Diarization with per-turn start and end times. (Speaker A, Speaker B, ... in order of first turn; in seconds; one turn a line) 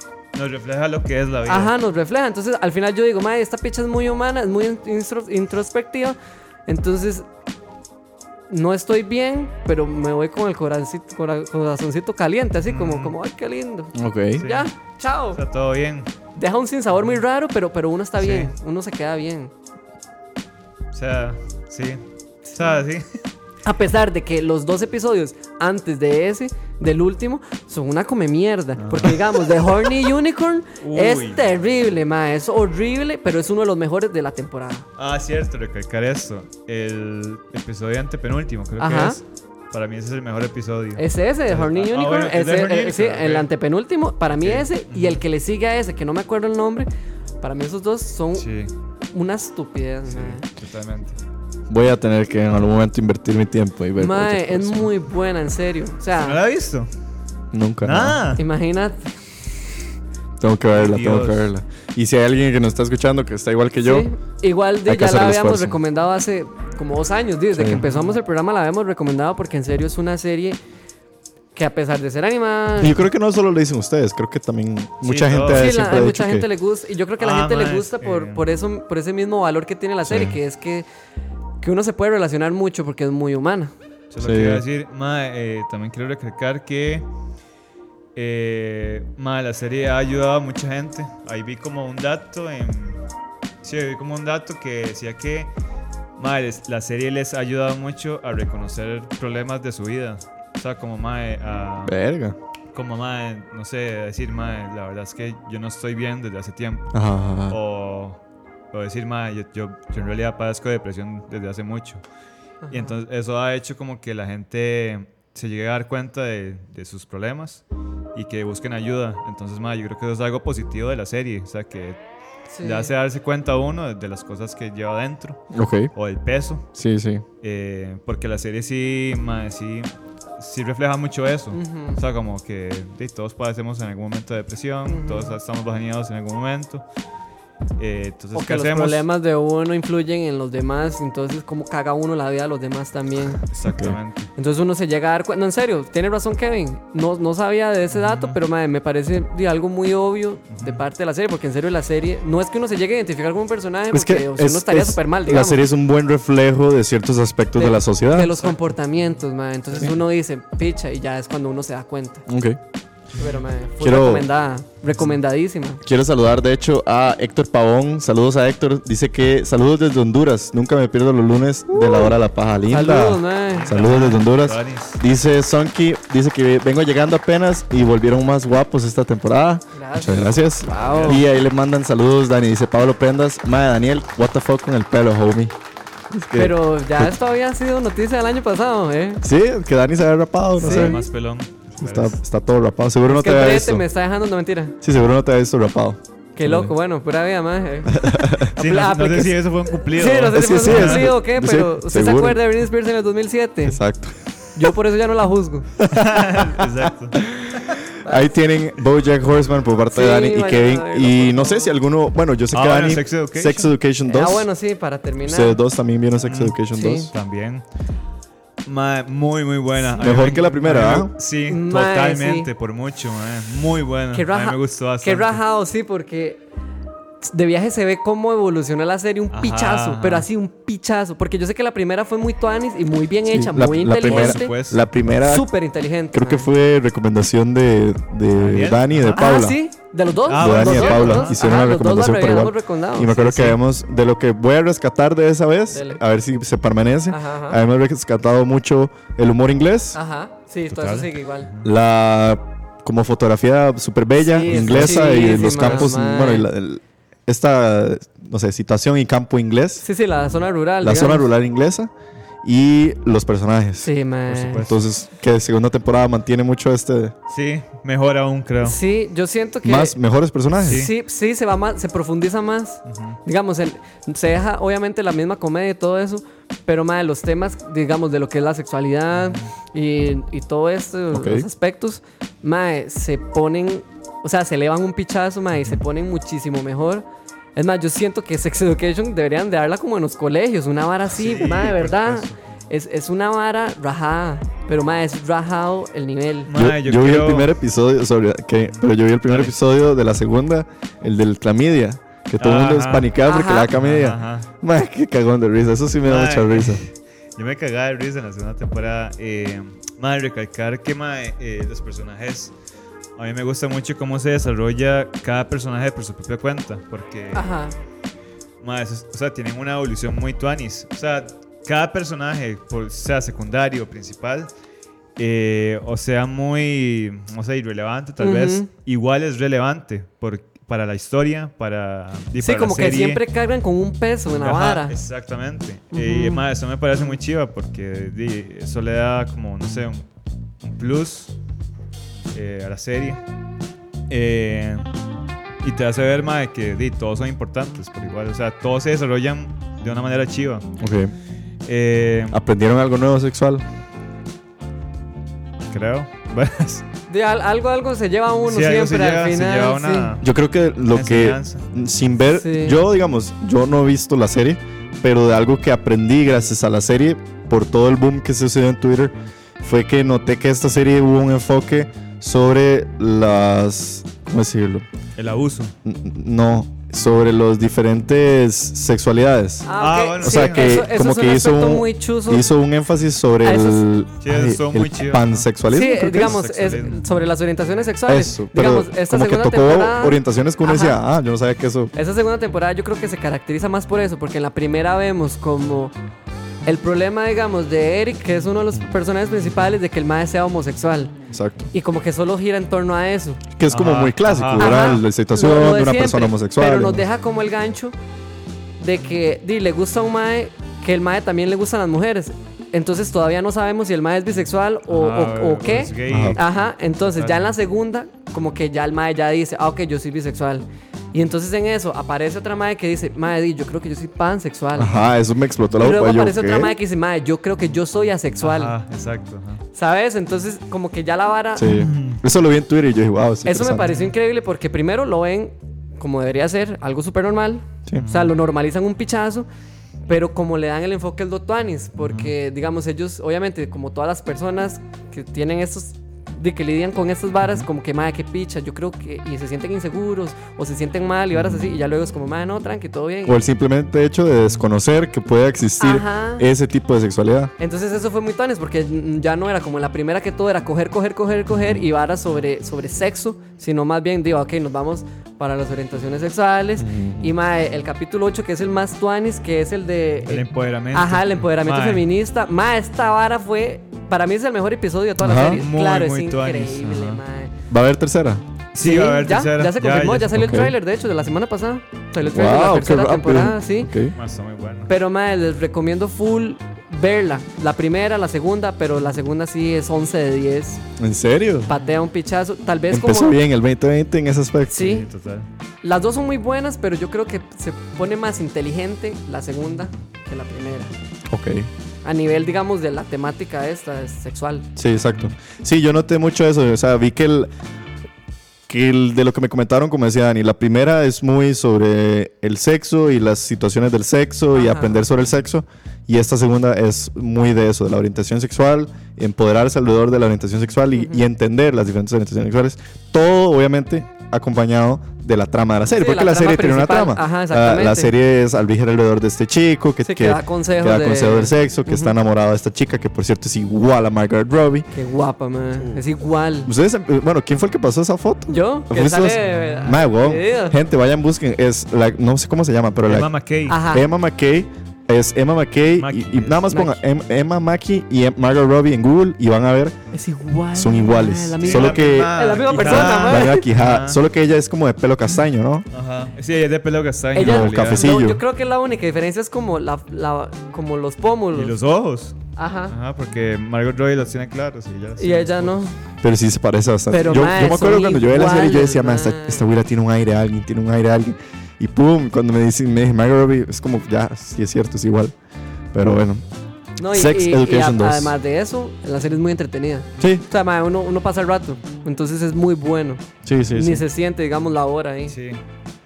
Speaker A: 0.3-1.7
Speaker B: 1.5-7.3
Speaker B: 8.5-15.4
Speaker A: 12.7-13.1
Speaker C: 13.9-14.4
Speaker A: 14.4-14.7
Speaker A: 15.3-16.1
Speaker B: 16.4-19.5
Speaker A: 18.2-18.5
Speaker A: 20.9-22.0
Speaker B: 22.5-22.8
Speaker A: 22.5-23.1
Speaker B: 23.6-34.9
Speaker A: 28.8-29.4
Speaker A: 30.8-31.4
Speaker A: 35.0-43.5
Speaker B: 38.8-39.2
Speaker B: 41.0-46.9
Speaker A: 44.4-45.2
Speaker B: 47.4-48.5
Speaker A: 48.4-48.7
Speaker B: 49.1-50.4
Speaker A: 50.1-51.2
Speaker C: 51.7-54.9
Speaker B: 54.0-56.4
Speaker A: 56.1-56.9
Speaker C: 57.5-58.2
Speaker A: 57.8-58.4
Speaker B: 58.4-59.1
Speaker C: 60.4-64.1
Speaker A: 60.7-61.5
Speaker B: 63.8-70.6
Speaker C: 64.8-65.8
Speaker C: 67.5-67.8
Speaker A: 67.8-68.2
Speaker B: 71.5-73.0
Speaker C: 72.8-76.5
Speaker A: 75.0-75.8
Speaker B: 75.5-80.8
Speaker A: 77.2-78.4
Speaker C: 80.0-80.4
Speaker B: 81.6-83.7
Speaker A: 84.1-87.1
Speaker C: 84.2-84.6
Speaker A: 88.1-93.0
Speaker A: 93.6-95.5
Speaker A: 96.2-102.0
Speaker C: 101.8-102.4
Speaker A: 102.7-108.2
Speaker C: 106.9-107.6
Speaker A: 108.7-112.0
Speaker B: 112.6-112.9
Speaker A: 112.7-117.6
Speaker A: 118.1-122.0
Speaker B: 122.5-122.9
Speaker A: 122.6-126.7
Speaker C: 125.5-125.9
Speaker C: 126.7-127.2
Speaker A: 127.4-136.8
Speaker B: 131.5-132.0
Speaker B: 134.9-135.3
Speaker A: 137.8-139.0
Speaker B: 138.3-143.4
Speaker A: 143.5-144.3
Speaker C: 143.7-144.0
Speaker B: 144.3-155.6
Speaker A: 147.9-148.4
Speaker A: 150.5-150.8
Speaker C: 153.9-158.3
Speaker B: 157.6-162.2
Speaker C: 162.3-162.6
Speaker B: 163.2-165.8
Speaker C: 163.8-164.3
Speaker C: 165.8-185.5
Speaker B: 171.7-172.1
Speaker B: 172.7-173.7
Speaker A: 173.5-175.0
Speaker B: 179.7-181.2
Speaker A: 180.7-181.2
Speaker B: 186.2-189.2
Speaker C: 186.3-187.1
Speaker C: 189.2-191.1
Speaker B: 190.6-190.9
Speaker A: 190.6-192.2
Speaker C: 191.8-193.8
Speaker B: 193.1-194.8
Speaker C: 194.8-196.7
Speaker B: 196.3-199.4
Speaker C: 197.9-198.5
Speaker A: 198.6-201.1
Speaker B: 199.9-203.8
Speaker C: 200.3-202.4
Speaker C: 203.6-204.2
Speaker B: 204.6-205.7
Speaker C: 205.8-214.5
Speaker A: 205.9-207.2
Speaker B: 208.0-208.3
Speaker B: 209.9-211.7
Speaker A: 212.5-213.7
Speaker B: 214.1-215.6
Speaker C: 215.2-217.1
Speaker A: 216.2-216.6
Speaker B: 216.7-217.1
Speaker A: 217.1-217.6
Speaker A: 218.7-225.4
Speaker B: 219.7-220.4
Speaker C: 220.0-221.1
Speaker B: 221.5-222.5
Speaker B: 224.1-226.4
Speaker B: 227.2-234.6
Speaker A: 229.3-230.3
Speaker C: 233.3-235.5
Speaker A: 234.0-234.8
Speaker B: 235.2-236.5
Speaker C: 236.1-239.6
Speaker A: 238.3-239.2
Speaker B: 239.1-243.6
Speaker A: 240.3-241.4
Speaker C: 240.3-250.0
Speaker B: 245.7-246.0
Speaker B: 247.1-247.6
Speaker B: 249.9-251.5
Speaker A: 250.7-251.7
Speaker C: 251.6-259.8
Speaker B: 254.1-256.5
Speaker A: 254.5-255.9
Speaker B: 259.8-261.3
Speaker C: 260.8-261.9
Speaker C: 262.4-263.9
Speaker B: 263.8-264.6
Speaker A: 264.3-264.8
Speaker C: 264.5-267.1
Speaker A: 267.3-268.8
Speaker B: 268.6-269.9
Speaker C: 269.6-270.9
Speaker A: 270.6-270.9
Speaker B: 270.6-296.5
Speaker A: 272.9-273.2
Speaker A: 279.1-279.5
Speaker C: 281.1-281.5
Speaker A: 291.1-292.4
Speaker A: 296.5-297.5
Speaker C: 296.5-306.8
Speaker A: 298.7-299.5
Speaker A: 302.4-303.1
Speaker B: 303.2-303.7
Speaker A: 303.7-304.5
Speaker A: 306.1-312.5
Speaker A: 313.2-317.5
Speaker B: 317.3-317.7
Speaker A: 318.6-324.5
Speaker A: 325.2-333.2
Speaker B: 328.2-328.7
Speaker B: 332.4-334.9
Speaker A: 334.3-340.0
Speaker B: 335.9-336.4
Speaker A: 340.6-341.3
Speaker A: 342.3-343.2
Speaker A: 344.1-344.9
Speaker A: 345.6-350.7
Speaker C: 350.8-351.1
Speaker A: 351.6-352.4
Speaker C: 352.3-353.6
Speaker A: 355.7-356.8
Speaker B: 357.1-360.1
Speaker A: 358.4-360.3
Speaker C: 360.2-374.9
Speaker A: 360.9-361.7
Speaker B: 362.3-362.8
Speaker A: 375.1-375.7
Speaker C: 375.8-379.7
Speaker B: 379.6-382.5
Speaker A: 379.8-380.9
Speaker C: 380.2-386.4
Speaker B: 383.4-383.9
Speaker A: 384.2-385.5
Speaker B: 385.7-391.0
Speaker A: 386.1-387.1
Speaker C: 388.1-391.9
Speaker B: 391.9-395.9
Speaker B: 396.6-401.1
Speaker C: 401.3-401.7
Speaker B: 401.7-403.4
Speaker C: 403.6-407.1
Speaker A: 403.7-405.0
Speaker B: 404.6-407.9
Speaker B: 408.8-424.9
Speaker A: 414.9-417.5
Speaker C: 416.1-416.4
Speaker C: 424.8-426.8
Speaker B: 425.8-428.7
Speaker A: 428.4-429.6
Speaker B: 429.7-431.7
Speaker C: 431.6-433.9
Speaker A: 431.6-432.2
Speaker B: 433.4-439.5
Speaker A: 433.9-434.1
Speaker A: 437.9-438.3
Speaker B: 440.1-453.4
Speaker A: 442.0-442.3
Speaker C: 453.2-457.5
Speaker B: 455.8-456.4
Speaker B: 457.6-477.5
Speaker C: 466.8-467.3
Speaker A: 470.3-472.1
Speaker C: 475.2-475.6
Speaker A: 475.6-477.2
Speaker C: 477.7-478.4
Speaker A: 478.7-480.4
Speaker B: 478.8-483.9
Speaker C: 480.3-480.7
Speaker C: 482.2-484.1
Speaker A: 484.1-484.9
Speaker B: 484.9-490.8
Speaker C: 491.0-491.7
Speaker B: 491.6-493.4
Speaker C: 492.9-494.9
Speaker B: 494.7-495.1
Speaker A: 494.8-495.5
Speaker B: 495.8-500.9
Speaker C: 501.3-501.7
Speaker B: 502.0-504.7
Speaker C: 504.8-507.5
Speaker C: 508.7-534.9
Speaker B: 514.5-515.0
Speaker B: 520.9-521.2
Speaker B: 525.9-528.1
Speaker B: 530.0-532.1
Speaker B: 534.9-536.7
Speaker C: 536.6-543.3
Speaker B: 538.5-540.8
Speaker A: 543.1-543.8
Speaker B: 543.7-544.1
Speaker C: 543.8-549.9
Speaker A: 546.0-546.7
Speaker B: 546.7-547.0
Speaker B: 550.1-553.6
Speaker C: 550.7-555.9
Speaker A: 551.6-554.2
Speaker A: 555.9-558.0
Speaker B: 557.3-561.7
Speaker C: 557.4-558.4
Speaker A: 561.5-562.4
Speaker B: 562.6-563.0
Speaker A: 562.9-565.9
Speaker B: 565.2-565.9
Speaker C: 566.2-575.3
Speaker B: 567.1-569.7
Speaker C: 575.9-576.4
Speaker B: 577.0-585.3
Speaker C: 577.1-578.3
Speaker C: 580.2-580.4
Speaker C: 583.4-584.0
Speaker A: 585.3-585.6